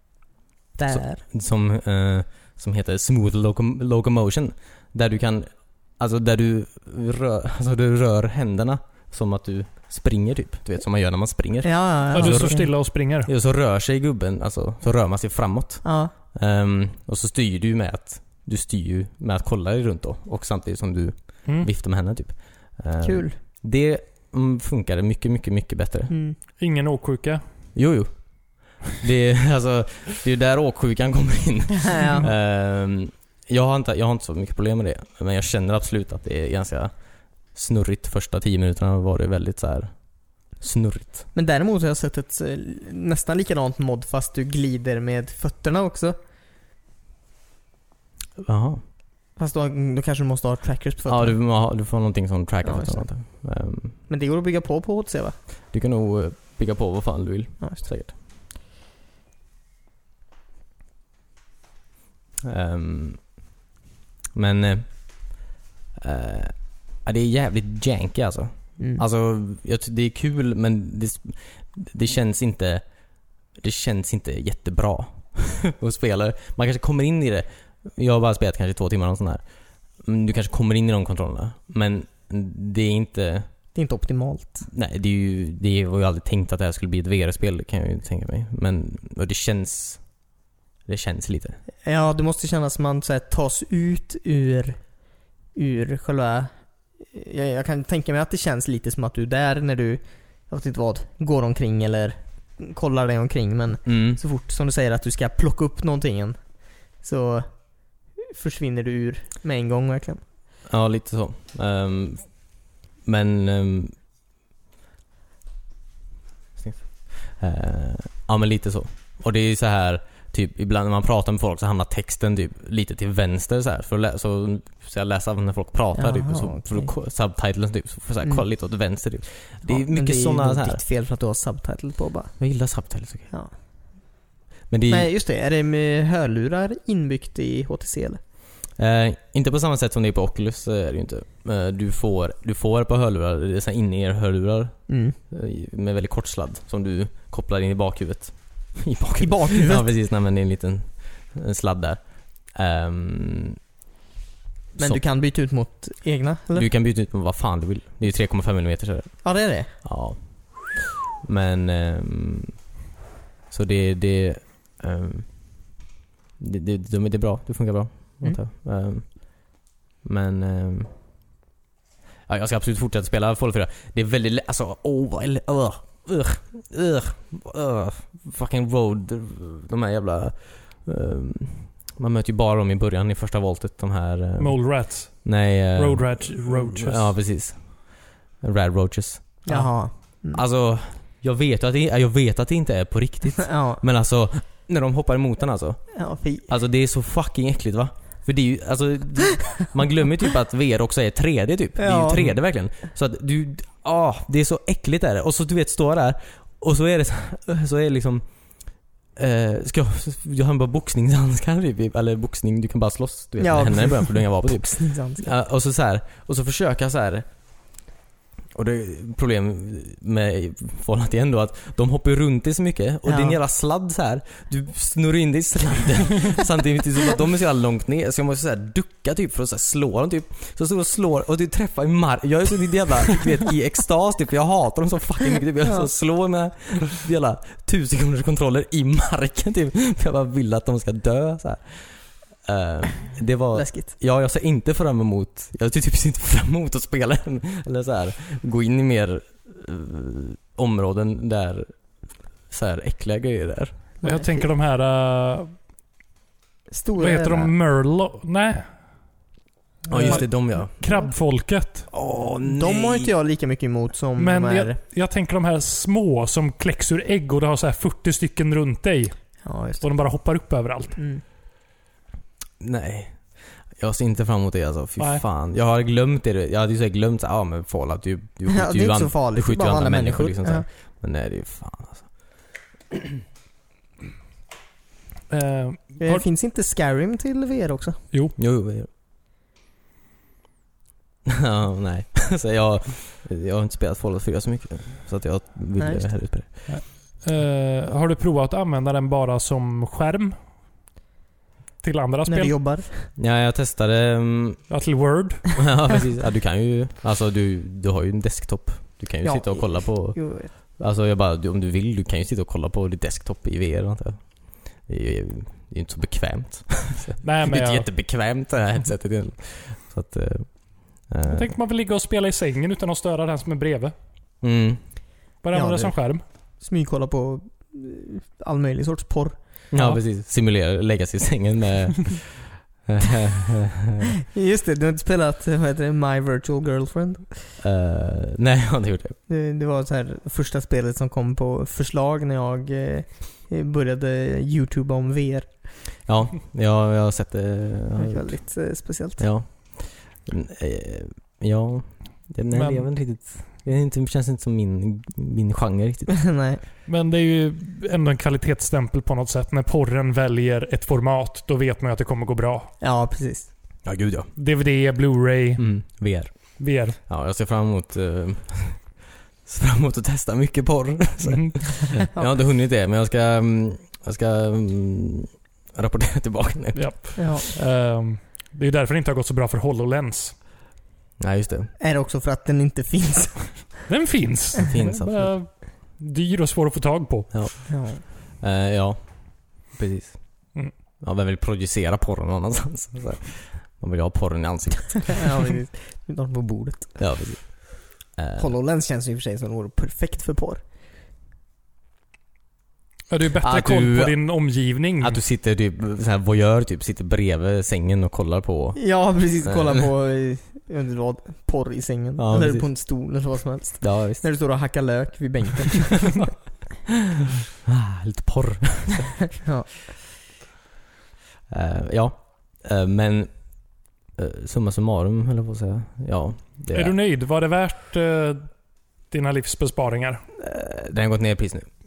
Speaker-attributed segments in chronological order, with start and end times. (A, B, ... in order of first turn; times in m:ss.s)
0:00.8-0:01.2 A
0:00.9-0:26.1 B
0:11.6-0:12.7 A
0:12.1-0:13.3 C
0:15.8-0:16.1 A
0:23.0-0:23.4 A
0:26.1-0:26.4 A
0:26.6-0:27.4 C
0:27.8-0:36.9 B
0:31.9-0:32.3 A
0:37.5-0:41.3 B
0:41.3-0:46.2 A
0:48.4-0:48.8 B
0:49.4-0:51.4 A
0:51.1-0:54.0 B
0:52.6-0:53.4 A
0:54.1-0:55.4 A
0:55.7-0:58.1 B
0:57.6-0:57.8 A
1:02.4-1:03.3 B
1:04.3-1:05.4 B
1:06.0-1:12.8 B
1:13.5-1:19.4 B
1:20.0-1:23.5 B
1:23.7-1:24.7 A
1:24.7-1:30.2 B
1:30.9-1:31.6 B
1:31.8-1:35.0 A
1:35.5-1:50.2 A
1:43.9-1:44.2 B
1:50.7-1:54.0 B
1:56.6-2:10.8 B
2:06.0-2:06.9 A
2:09.6-2:12.4 A
2:12.4-2:13.3 B
2:13.3-2:14.0 A
2:14.7-2:15.1 B
2:14.9-2:18.2 A
2:18.8-2:33.6 B
2:24.9-2:25.2 A
2:29.2-2:29.9 A
2:34.8-2:35.0 B
2:34.8-2:36.7 A
2:36.6-2:42.7 B
2:39.2-2:39.7 A
2:43.5-2:45.7 B
2:46.4-2:50.9 B
2:52.3-3:09.6 B
3:04.4-3:07.2 C
3:09.4-3:10.4 A
3:10.3-3:37.3 B
3:13.4-3:13.8 A
3:15.9-3:16.5 A
3:21.8-3:22.4 A
3:33.4-3:35.3 A
3:38.5-4:11.8 B
3:43.1-3:43.4 A
4:03.5-4:03.9 A
4:12.5-4:13.8 B
4:14.0-4:14.5 A
4:14.0-4:15.6 C
4:16.7-4:17.5 A
4:17.0-4:18.7 C
4:19.9-4:21.9 C
4:19.9-4:20.8 B
4:21.9-4:23.1 B
4:22.4-4:24.8 A
4:24.2-4:31.0 C
4:29.4-4:29.9 A
4:31.0-4:31.2 A
4:32.6-4:42.2 B
4:35.0-4:35.2 C
4:38.5-4:40.7 A
4:45.3-4:46.2 C
4:46.0-4:48.0 A
4:48.4-4:48.9 B
4:51.3-4:56.7 B
4:55.8-4:56.1 A
4:56.7-5:00.4 C
5:01.8-5:02.5 C
5:02.3-5:03.1 A
5:03.2-5:04.7 B
5:04.7-5:05.7 C
5:05.6-5:21.5 B
5:09.2-5:10.5 A
5:17.2-5:17.9 C
5:21.3-5:23.9 C
5:24.4-5:24.8 B
5:25.4-5:26.2 C
5:25.5-5:26.0 A
5:26.6-5:29.4 A
5:29.7-5:34.1 B
5:34.3-5:37.5 A
5:37.6-5:39.2 B
5:39.3-5:45.6 A
5:46.0-5:48.4 B
5:48.0-5:49.3 A
5:49.2-5:56.2 B
5:52.5-5:53.2 C
5:56.1-5:56.6 A
5:56.9-6:02.7 C
6:02.8-6:03.5 A
6:03.8-6:04.3 B
6:04.4-6:07.0 C
6:05.6-6:17.2 B
6:11.2-6:11.5 C
6:16.8-6:20.4 C
6:17.2-6:17.5 A
6:21.2-6:21.7 B
6:21.8-6:23.8 A
6:23.9-6:27.4 C
6:24.6-6:25.4 B
6:27.3-6:35.3 B
6:27.7-6:28.0 A
6:35.1-6:37.0 A
6:37.0-6:38.5 B
6:38.4-6:40.6 A
6:43.1-6:45.2 C
6:43.4-6:49.8 B
6:48.8-6:56.3 A
6:52.2-6:52.7 B
6:53.8-6:54.2 B
6:57.6-6:59.3 B
6:59.4-6:59.7 A
7:01.5-7:03.4 B
7:04.1-7:07.0 B
7:06.7-7:08.5 C
7:09.1-7:10.2 C
7:10.4-7:11.7 B